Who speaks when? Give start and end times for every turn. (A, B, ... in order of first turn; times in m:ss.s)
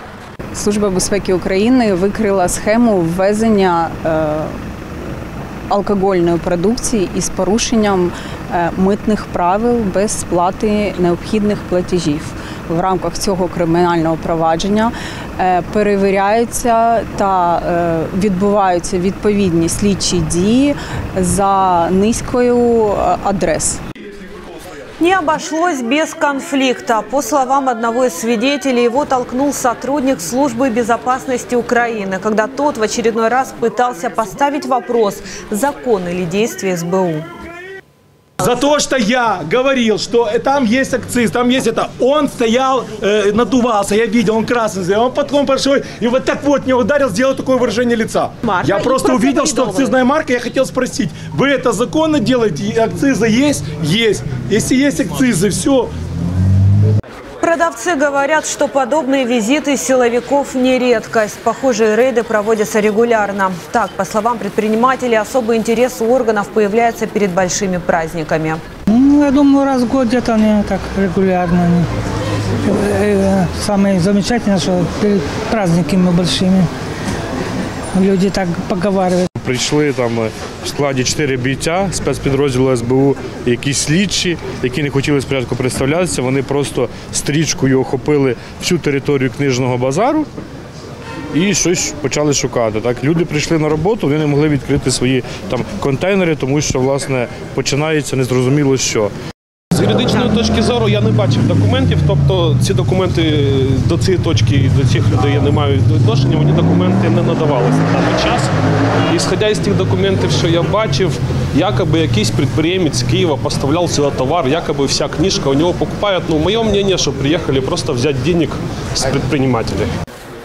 0:00.5-0:04.6 A
0:05.7-0:23.8 A
0:25.0-0:37.3 B
0:38.4-0:55.9 C
0:48.6-0:49.9 B
0:57.4-1:08.6 B
1:08.9-1:11.9 D
1:12.6-1:16.7 D
1:17.9-1:19.3 D
1:19.4-1:30.3 E
1:31.3-1:39.1 E
1:39.7-1:48.5 F
1:49.1-1:59.9 F